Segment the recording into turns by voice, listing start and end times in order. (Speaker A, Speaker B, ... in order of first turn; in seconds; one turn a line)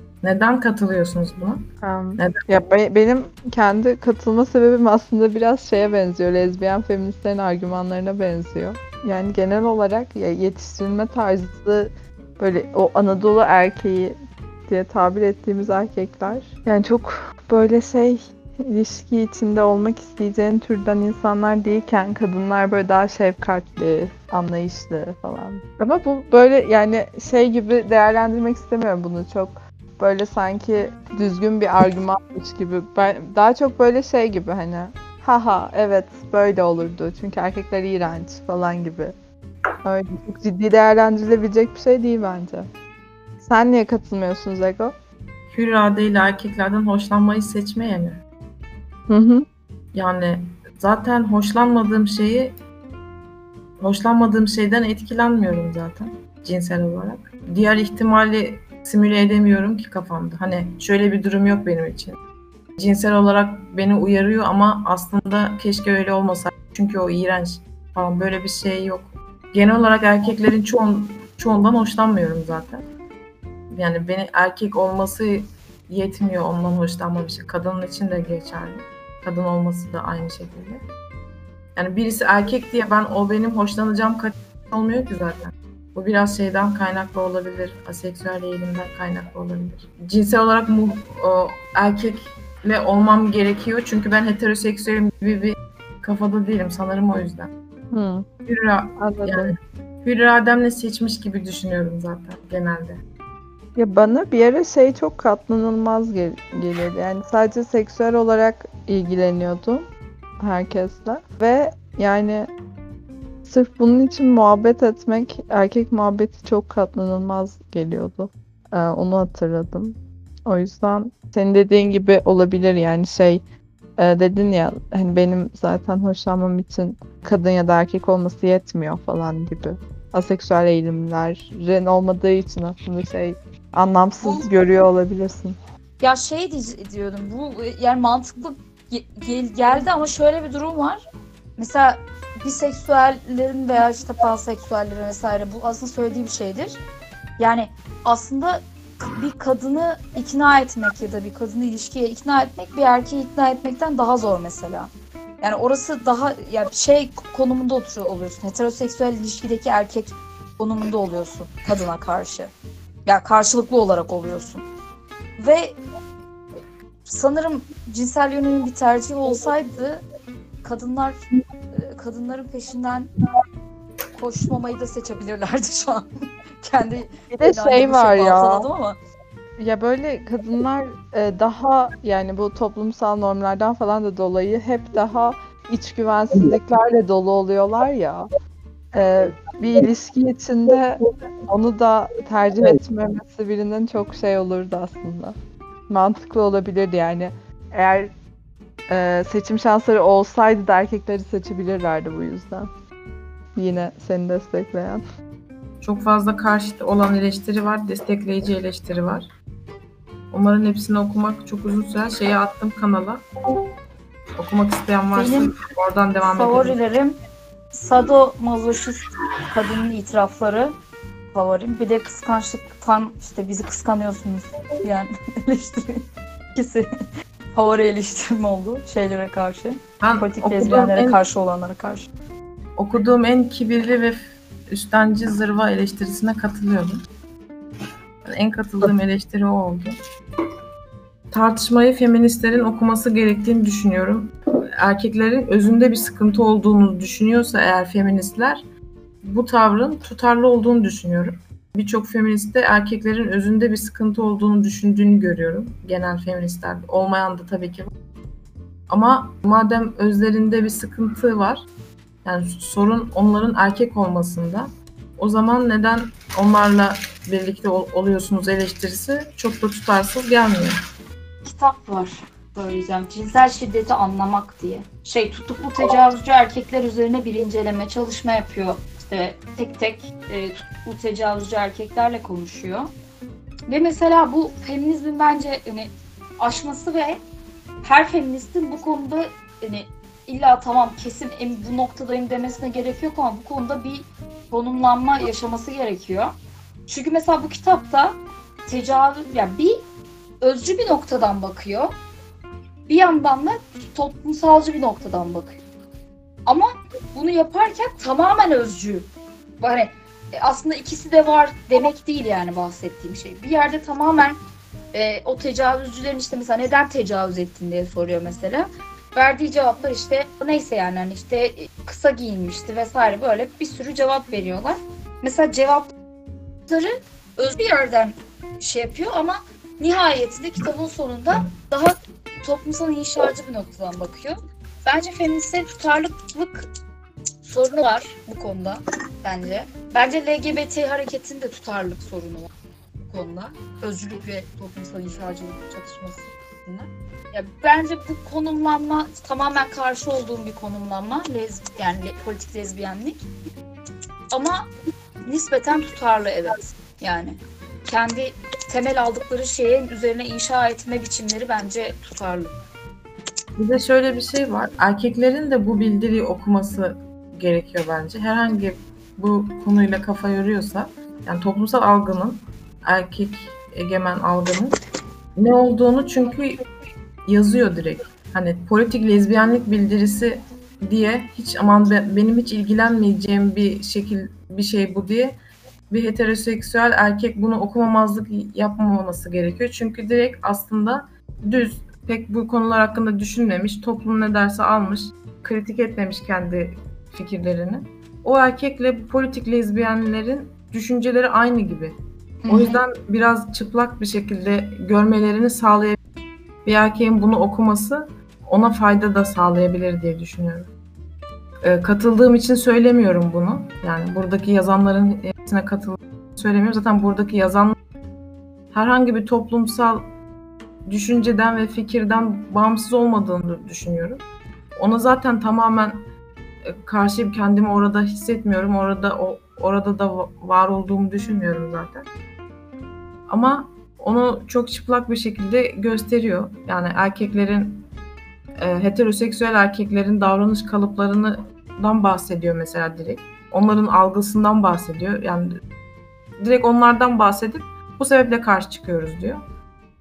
Speaker A: 0.2-1.6
Speaker B: 1.8-39.1
Speaker B: 39.8-42.7
Speaker B: 43.4-44.9
Speaker A: 45.5-48.2
Speaker B: 49.1-49.4
Speaker A: 49.9-52.5
Speaker A: 53.8-62.2
Speaker A: 62.8-72.8
Speaker A: 73.7-80.8
Speaker A: 81.7-97.5
Speaker B: 97.9-98.3
Speaker A: 98.5-103.0
Speaker B: 99.0-99.5
Speaker B: 103.8-109.8
Speaker B: 110.4-112.5
Speaker B: 113.4-123.4
Speaker B: 124.0-135.6
Speaker C: 134.2-134.5
Speaker C: 136.0-141.0
Speaker C: 141.6-146.8
Speaker C: 147.4-162.5
Speaker C: 163.1-164.6
Speaker C: 165.4-165.8
Speaker C: 167.0-170.0
Speaker C: 170.6-171.2
Speaker C: 171.7-173.1
Speaker C: 174.1-176.1
Speaker C: 176.6-179.0
Speaker B: 177.3-178.7
Speaker B: 179.6-188.2
Speaker B: 188.9-195.3
Speaker B: 195.9-198.1
Speaker B: 198.9-202.7
Speaker B: 203.5-205.0
Speaker A: 205.8-209.3
Speaker A: 210.3-213.2
Speaker A: 214.4-216.8
Speaker C: 215.1-215.5
Speaker C: 216.2-217.2
Speaker C: 217.7-219.0
Speaker C: 219.5-220.7
Speaker C: 221.3-226.0
Speaker C: 226.5-226.8
Speaker C: 227.5-232.1
Speaker A: 230.0-231.2
Speaker A: 232.8-237.0
Speaker A: 238.2-239.9
Speaker A: 241.3-248.6
Speaker A: 249.2-257.9
Speaker A: 258.9-261.7
Speaker A: 262.2-270.8
Speaker C: 271.4-282.9
Speaker C: 283.7-287.2
Speaker C: 287.8-296.3
Speaker C: 296.9-299.8
Speaker C: 300.4-302.0
Speaker C: 302.9-305.6
Speaker C: 306.4-309.1
Speaker C: 309.6-314.4
Speaker C: 314.9-325.9
Speaker C: 326.7-336.7
Speaker C: 337.4-342.5
Speaker C: 343.0-353.2
Speaker C: 354.3-354.6
Speaker C: 355.2-362.6
Speaker A: 363.6-374.8
Speaker A: 375.4-376.6
Speaker A: 377.3-385.3
Speaker A: 385.9-401.9
Speaker C: 402.4-402.8
Speaker A: 402.5-406.0
Speaker A: 406.6-410.7
Speaker A: 411.6-417.8
Speaker A: 418.7-420.0
Speaker A: 420.9-424.2
Speaker A: 424.8-426.1
Speaker A: 426.6-432.1
Speaker A: 433.3-437.8
Speaker A: 438.6-445.6
Speaker A: 446.4-449.4